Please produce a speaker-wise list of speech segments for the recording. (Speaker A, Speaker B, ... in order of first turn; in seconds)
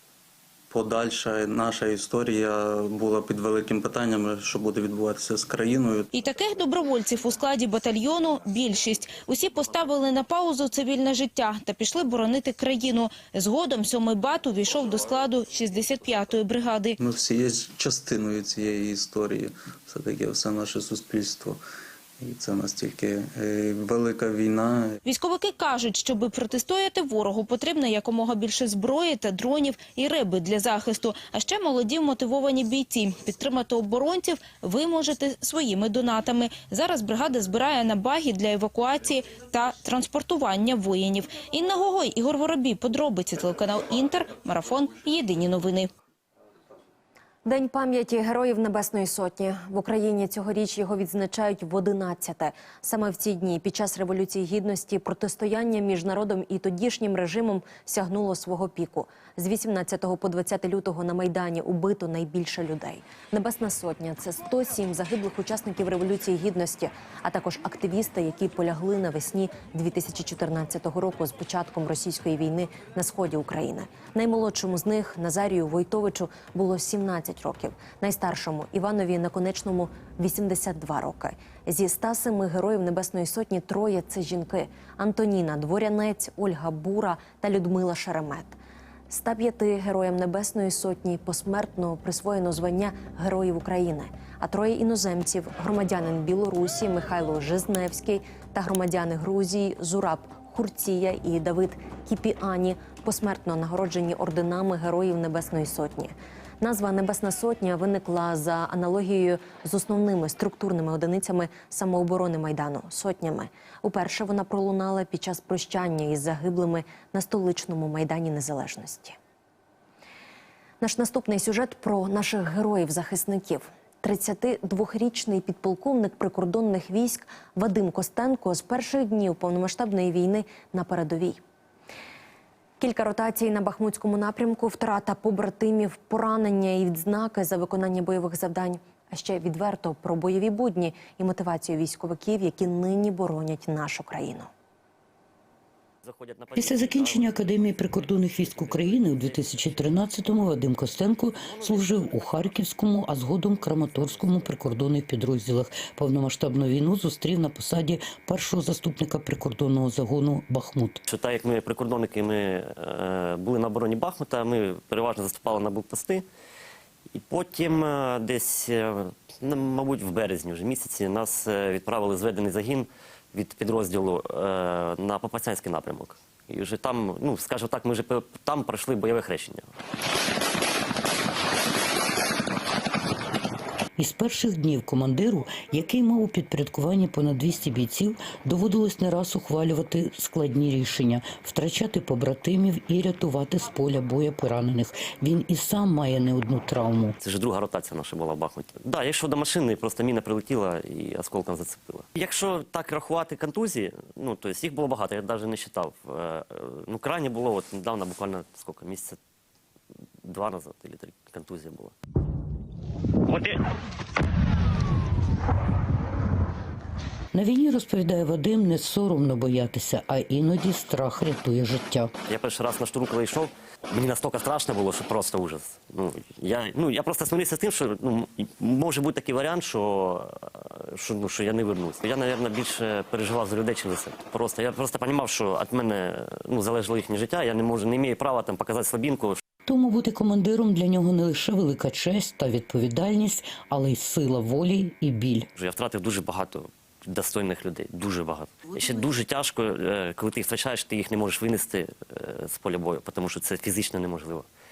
Speaker A: 0.7-6.1, 17.0-21.6, 22.2-25.0
Speaker B: 6.1-17.0, 25.1-45.9
Speaker C: 47.5-88.6, 89.1-119.2, 120.8-131.4, 132.8-144.5
Speaker D: 146.0-154.6, 161.1-166.3, 167.1-179.7, 197.2-209.2, 210.2-211.9, 213.2-213.6, 222.3-239.4, 245.5-254.5
Speaker E: 146.6-161.0, 184.0-197.2, 217.3-222.1, 239.7-245.5